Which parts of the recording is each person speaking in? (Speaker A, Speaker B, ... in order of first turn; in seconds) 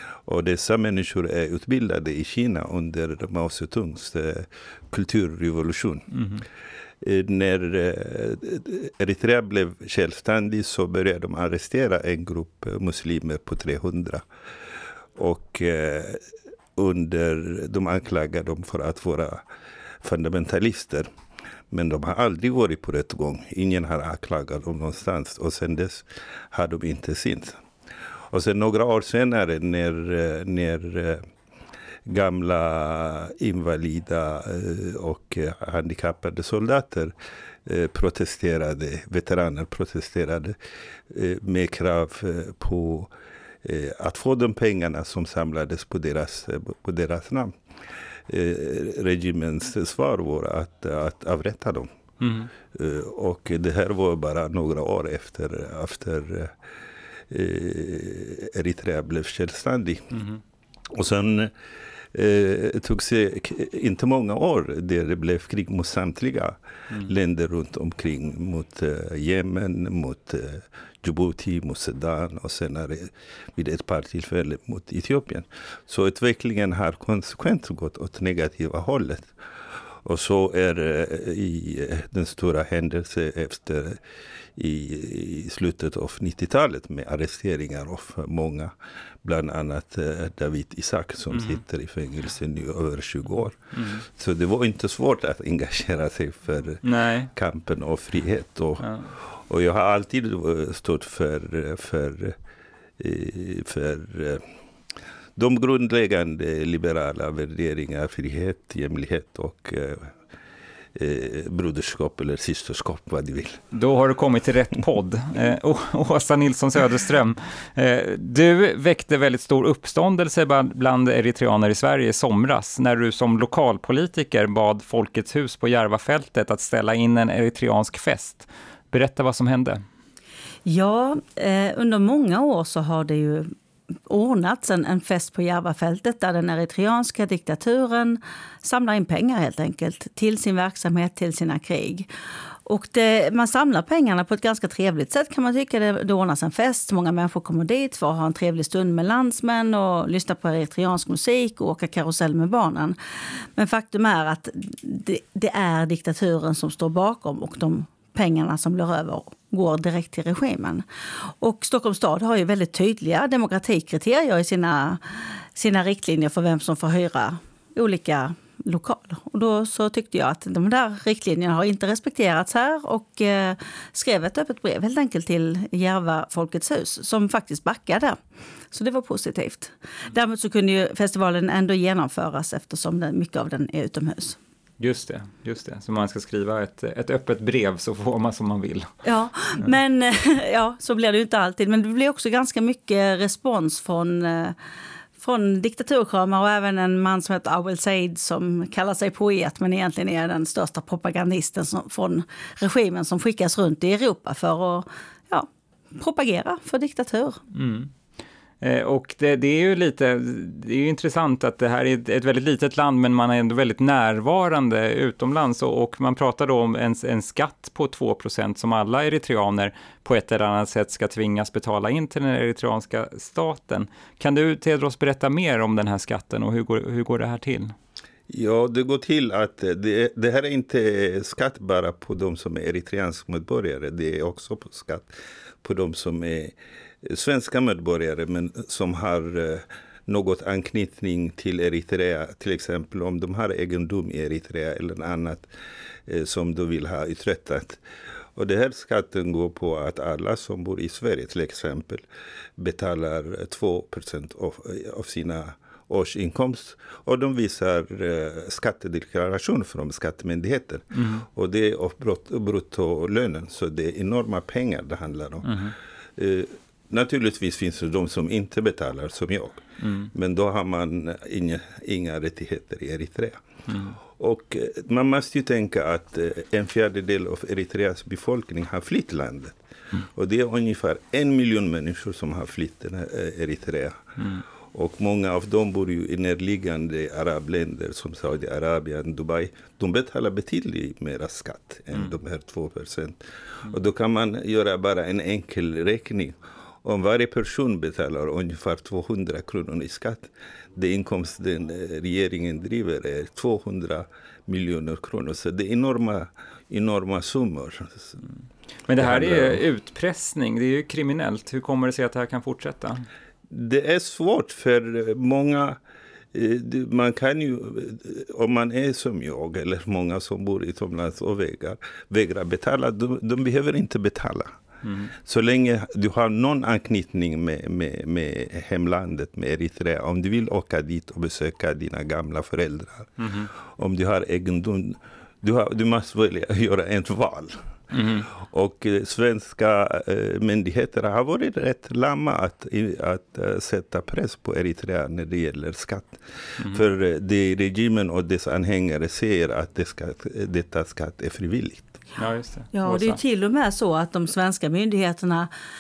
Speaker A: 0.3-6.1, 7.0-14.2, 15.2-16.2, 16.8-19.4, 20.0-21.1, 21.7-27.6, 28.3-31.2, 32.1-37.1, 37.7-40.6, 41.1-43.1, 43.6-47.5, 48.3-51.9, 52.7-56.5, 57.3-60.2, 60.9-61.5, 62.1-79.3, 80.0-84.0, 84.6-88.7, 89.2-102.4, 103.0-104.4, 105.4-110.1, 111.0-113.6, 228.3-235.1, 235.6-245.5, 246.1-247.8, 248.4-252.1, 252.6-265.6, 266.2-273.4, 274.2-284.1, 284.7-308.2, 309.0-309.6, 313.5-315.8, 316.3-324.6, 325.2-337.6, 338.3-352.0
Speaker B: 6.1-6.4, 52.2-52.5, 93.8-94.0, 96.8-97.3, 98.8-99.1, 113.7-129.8, 184.8-188.9, 207.5-207.9, 208.6-227.7, 260.9-261.2, 265.4-265.7, 269.8-270.1, 273.7-274.0, 308.9-313.0, 324.8-325.1, 333.2-333.5, 337.9-338.3, 352.2-353.2
Speaker C: 130.7-133.5, 134.1-142.1, 142.7-153.0, 153.6-160.8, 161.4-178.2, 178.7-184.4, 189.0-194.6, 195.2-207.4, 352.7-355.5